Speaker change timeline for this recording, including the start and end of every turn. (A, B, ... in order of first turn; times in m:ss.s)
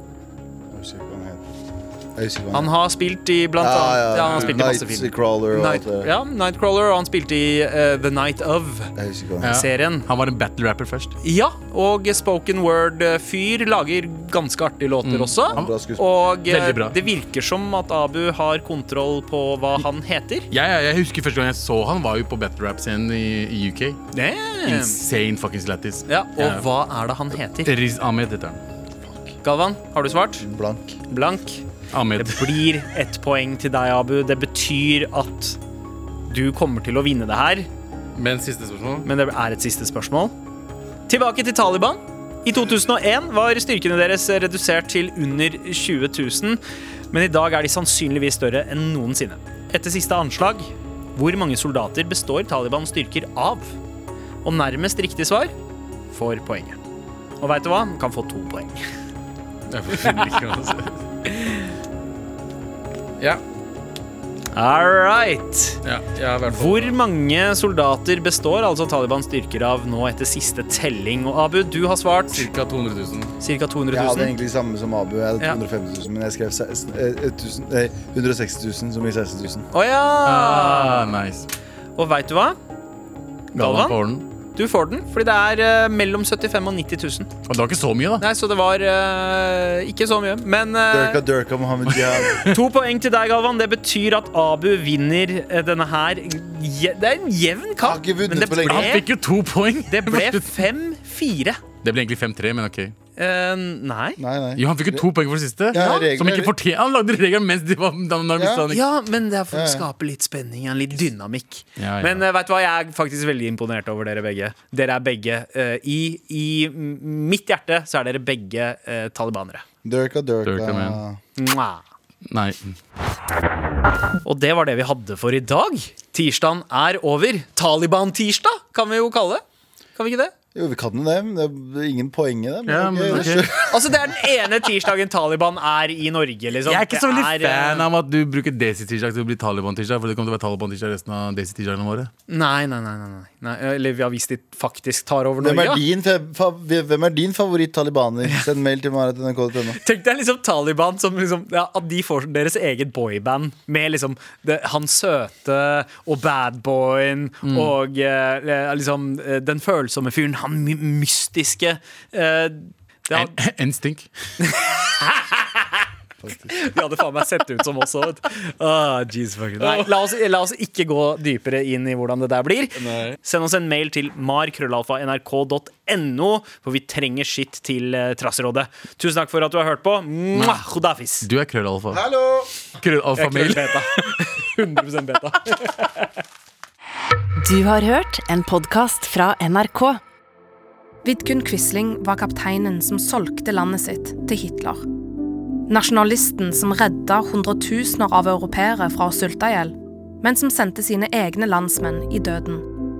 0:00.7-0:01.4 A
0:02.2-0:02.7 A
0:02.5-0:08.9 B
0:03.6-0:06.1 A
0:09.0-0:09.5 A
0:09.4-0:11.1 C
0:09.5-0:10.0 B
0:11.2-0:20.5 B
0:15.0-0:15.7 C
0:15.5-0:16.0 A
0:16.5-0:17.0 C
0:20.5-0:24.0 C
0:24.1-0:25.0 B
0:24.6-0:26.6 C
0:26.1-0:27.7 B
0:27.6-0:28.6 C
0:29.4-0:30.4 B
0:30.4-0:31.0 A
0:31.1-0:31.6 B
0:31.9-0:32.6 C
0:32.2-0:35.6 B
0:36.3-0:37.7 B
0:38.2-0:39.0 C
0:39.0-0:40.3 B
0:41.1-0:46.6 B
0:47.1-0:53.8 B
0:54.4-0:55.5 B
0:56.1-0:56.8 B
0:57.4-0:58.8 B
0:59.7-1:01.0 C
1:01.3-1:01.6 B
1:04.5-1:05.8 B
1:05.8-1:06.9 C
1:06.5-1:12.5 B
1:12.3-1:13.3 C
1:13.4-1:14.3 B
1:13.9-1:19.6 A
1:19.7-1:21.1 B
1:20.2-1:21.5 C
1:22.0-1:22.6 B
1:23.5-1:24.2 C
1:23.6-1:24.0 B
1:24.5-1:27.3 B
1:27.5-1:28.2 C
1:28.2-1:31.2 B
1:30.9-1:32.4 A
1:32.2-1:32.6 C
1:32.4-1:39.1 B
1:37.8-1:39.0 A
1:38.6-1:40.6 C
1:39.9-1:41.6 B
1:41.8-1:42.9 C
1:43.2-1:44.2 B
1:44.2-1:45.1 A
1:44.6-1:48.8 C
1:45.7-1:46.5 A
1:45.7-1:46.1 B
1:48.4-1:48.6 A
1:48.7-1:59.6 B
1:49.5-1:49.8 A
1:51.8-1:52.2 C
1:59.8-2:01.2 A
2:00.4-2:01.0 C
2:01.4-2:01.8 B
2:02.3-2:02.7 C
2:04.2-2:09.4 B
2:10.0-2:10.3 B
2:10.5-2:13.8 A
2:12.6-2:13.5 C
2:13.1-2:17.8 B
2:16.6-2:22.1 C
2:22.3-2:25.8 B
2:25.4-2:29.8 A
2:29.8-2:43.4 B
2:37.4-2:37.7 C
2:43.1-2:44.1 C
2:44.4-2:45.8 B
2:46.2-2:46.6 A
2:46.5-3:01.3 B
2:49.6-2:49.9 C
2:52.8-2:53.2 C
3:00.3-3:00.6 C
3:01.2-3:02.1 C
3:01.9-3:02.5 A
3:02.8-3:03.8 C
3:03.2-3:06.1 B
3:07.4-3:10.0 D
3:11.0-3:14.8 E
3:15.7-3:22.6 E